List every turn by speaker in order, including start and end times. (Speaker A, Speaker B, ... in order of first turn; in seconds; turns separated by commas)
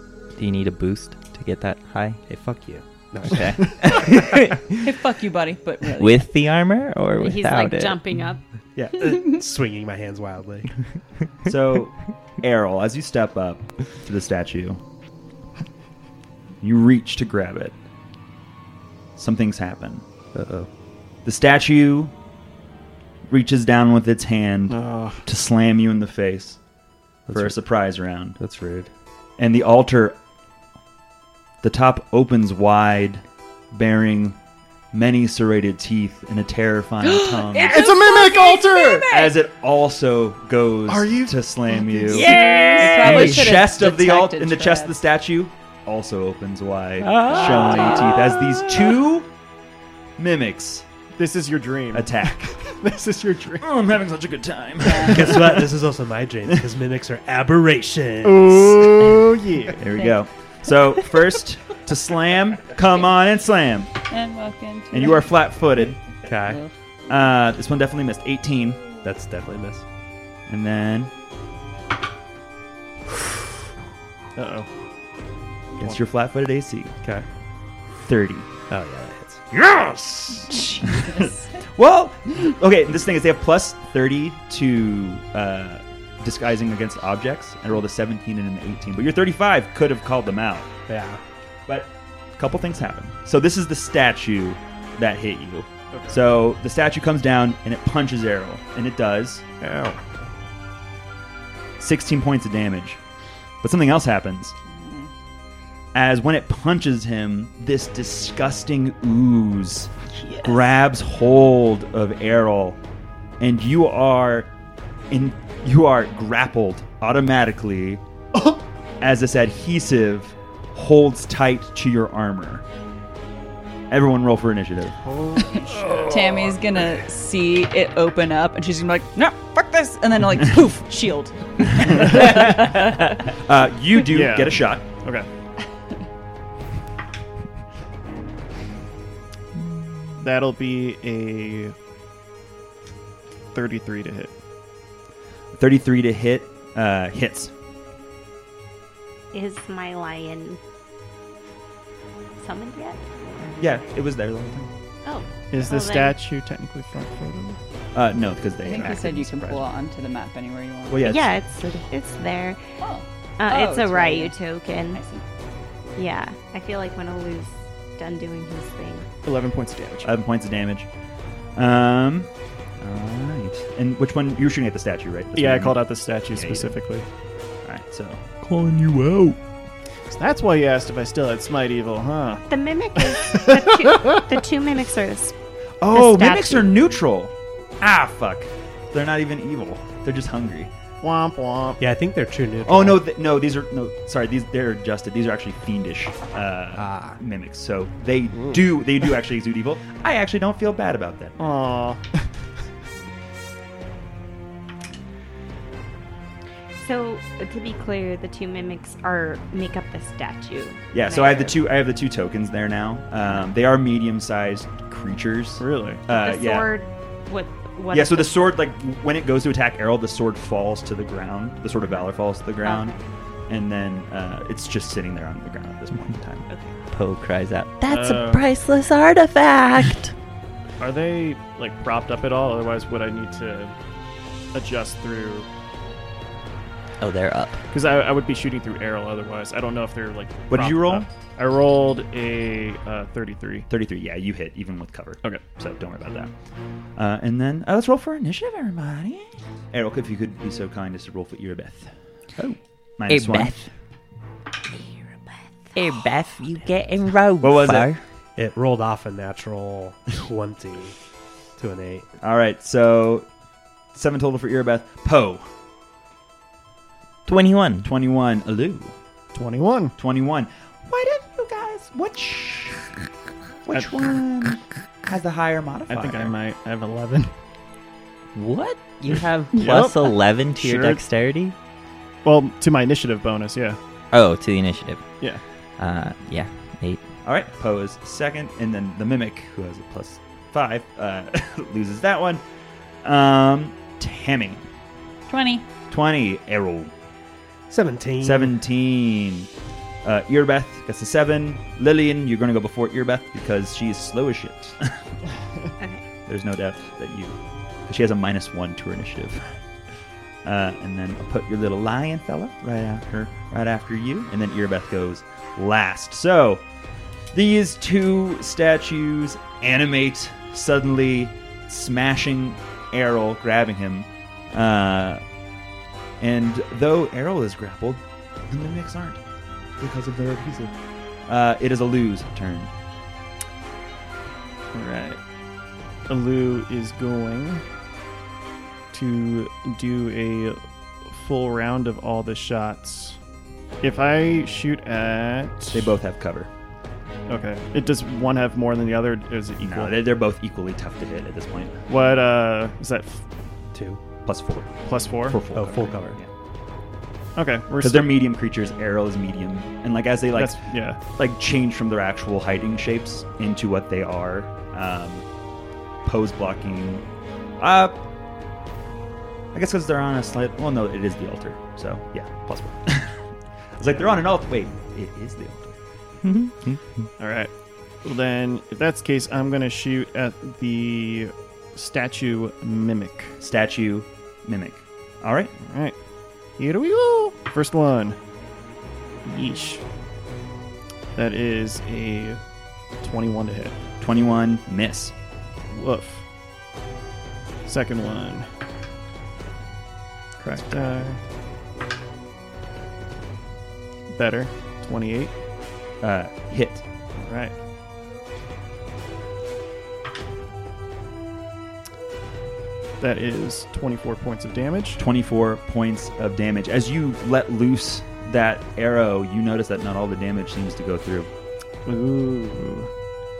Speaker A: 0.3-2.2, Speaker B: 2.3-4.0, Speaker A: 3.2-4.7, Speaker C: 4.8-6.3, Speaker A: 6.0-8.0, Speaker D: 7.2-8.4, Speaker E: 8.8-9.2, Speaker B: 9.0-10.7, Speaker E: 11.4-14.8, Speaker E: 16.6-17.8, Speaker E: 19.1-20.0, Speaker B: 20.3-20.7, Speaker E: 21.2-22.1, Speaker E: 23.3-26.6, Speaker F: 24.7-25.2, Speaker B: 27.3-27.6, Speaker E: 27.3-28.4, Speaker B: 28.4-28.9, Speaker E: 29.4-30.1, Speaker E: 31.6-34.4, Speaker E: 34.9-37.9, Speaker C: 37.0-39.3, Speaker F: 37.6-39.1, Speaker E: 39.1-49.3, Speaker F: 40.9-42.4, Speaker C: 42.1-44.9, Speaker A: 42.1-43.6, Speaker A: 47.0-49.0, Speaker C: 47.2-48.4, Speaker E: 50.2-50.9, Speaker F: 51.1-53.7, Speaker E: 51.9-52.6, Speaker E: 53.6-55.8, Speaker C: 54.8-55.2, Speaker B: 55.0-59.3, Speaker F: 58.2-59.9, Speaker E: 59.8-63.9, Speaker C: 64.1-65.2, Speaker E: 64.9-66.0, Speaker B: 66.2-66.6, Speaker E: 67.1-68.8, Speaker B: 69.0-69.8, Speaker E: 70.5-71.1, Speaker F: 74.3-74.7, Speaker E: 75.8-76.9, Speaker E: 78.0-78.5, Speaker B: 78.7-79.4, Speaker E: 79.5-90.7, Speaker C: 80.5-81.6, Speaker B: 90.9-91.2, Speaker E: 91.7-99.4, Speaker F: 95.9-96.2, Speaker F: 99.6-100.0, Speaker E: 101.8-103.0, Speaker E: 103.6-104.5, Speaker C: 104.7-105.1, Speaker E: 105.9-112.8, Speaker E: 113.4-114.5, Speaker E: 115.1-118.0, Speaker E: 119.0-122.6, Speaker E: 123.9-125.0, Speaker F: 125.0-126.1, Speaker E: 125.7-126.3, Speaker C: 126.1-133.2, Speaker E: 131.9-132.4, Speaker E: 133.3-134.9, Speaker F: 134.0-135.3, Speaker F: 140.2-141.7, Speaker F: 143.5-144.3, Speaker E: 145.5-147.5, Speaker D: 149.3-150.6, Speaker D: 152.4-153.0, Speaker E: 153.6-154.7, Speaker D: 155.0-156.2, Speaker F: 155.5-157.6, Speaker E: 157.9-159.6, Speaker C: 158.6-161.1, Speaker E: 160.9-161.4, Speaker D: 161.0-162.6, Speaker C: 162.8-165.2, Speaker D: 163.4-165.0, Speaker D: 166.0-169.1, Speaker F: 169.2-170.1, Speaker E: 170.0-170.9, Speaker E: 171.5-176.7, Speaker F: 175.3-177.1, Speaker E: 177.6-178.5, Speaker A: 178.4-179.3, Speaker F: 180.1-182.5, Speaker D: 182.5-185.3, Speaker F: 183.0-183.8, Speaker E: 185.8-190.7, Speaker D: 185.9-186.8, Speaker F: 191.0-191.8, Speaker B: 191.8-193.0, Speaker E: 192.7-201.4, Speaker B: 196.8-197.2, Speaker F: 201.4-202.3, Speaker D: 206.8-211.6, Speaker E: 210.9-216.7, Speaker F: 215.6-216.0, Speaker D: 216.1-218.5, Speaker E: 217.9-222.9, Speaker D: 222.6-223.0, Speaker E: 223.5-226.4, Speaker D: 226.5-226.8, Speaker A: 226.9-230.1, Speaker F: 227.9-228.4, Speaker F: 230.8-233.7, Speaker F: 234.5-235.5, Speaker A: 237.0-237.6, Speaker F: 237.7-243.7, Speaker E: 240.5-241.1, Speaker E: 243.7-246.3, Speaker E: 246.9-251.9, Speaker E: 253.0-253.7, Speaker A: 253.1-253.7, Speaker A: 255.7-258.0, Speaker E: 257.4-257.9, Speaker B: 258.4-260.9, Speaker B: 261.6-262.1, Speaker E: 262.2-263.3, Speaker E: 263.9-265.5, Speaker A: 267.2-267.9, Speaker E: 267.8-268.9, Speaker F: 269.3-269.9, Speaker E: 270.0-273.0, Speaker E: 273.6-276.3, Speaker F: 275.9-277.3, Speaker A: 278.3-281.5, Speaker F: 279.5-281.0, Speaker F: 282.2-283.8, Speaker A: 284.1-287.0, Speaker E: 287.2-292.4, Speaker E: 293.0-294.6, Speaker C: 295.3-295.7, Speaker E: 295.9-296.9, Speaker B: 297.7-298.6, Speaker E: 298.2-299.5, Speaker E: 300.0-305.0, Speaker E: 306.3-309.6, Speaker E: 310.4-316.6, Speaker E: 317.3-325.2, Speaker E: 326.2-329.2, Speaker E: 329.8-330.7, Speaker E: 331.3-332.7, Speaker F: 334.7-335.2, Speaker F: 336.1-337.6, Speaker F: 338.9-343.2, Speaker F: 343.8-345.9, Speaker E: 345.7-346.5, Speaker F: 347.3-349.9, Speaker E: 349.6-351.8, Speaker F: 351.9-353.2, Speaker B: 353.7-354.0, Speaker E: 354.2-356.3, Speaker F: 354.9-355.4, Speaker B: 355.5-356.2, Speaker F: 357.4-358.1, Speaker E: 357.8-365.2, Speaker F: 360.3-361.0, Speaker E: 366.0-367.0, Speaker E: 367.6-368.0, Speaker E: 369.5-373.2, Speaker E: 373.8-375.8, Speaker A: 376.2-377.1, Speaker F: 377.2-377.5, Speaker F: 378.0-383.4, Speaker E: 383.4-385.5, Speaker F: 385.6-385.9, Speaker F: 386.6-388.2, Speaker F: 389.2-389.8, Speaker F: 391.1-392.4, Speaker F: 393.0-393.8, Speaker E: 394.0-395.1, Speaker F: 395.7-396.2, Speaker F: 397.6-398.5, Speaker E: 400.4-401.0, Speaker F: 400.4-401.2, Speaker F: 404.1-405.3, Speaker E: 406.0-406.8, Speaker F: 407.1-407.5, Speaker F: 413.0-415.0, Speaker E: 415.0-421.3, Speaker F: 421.9-422.9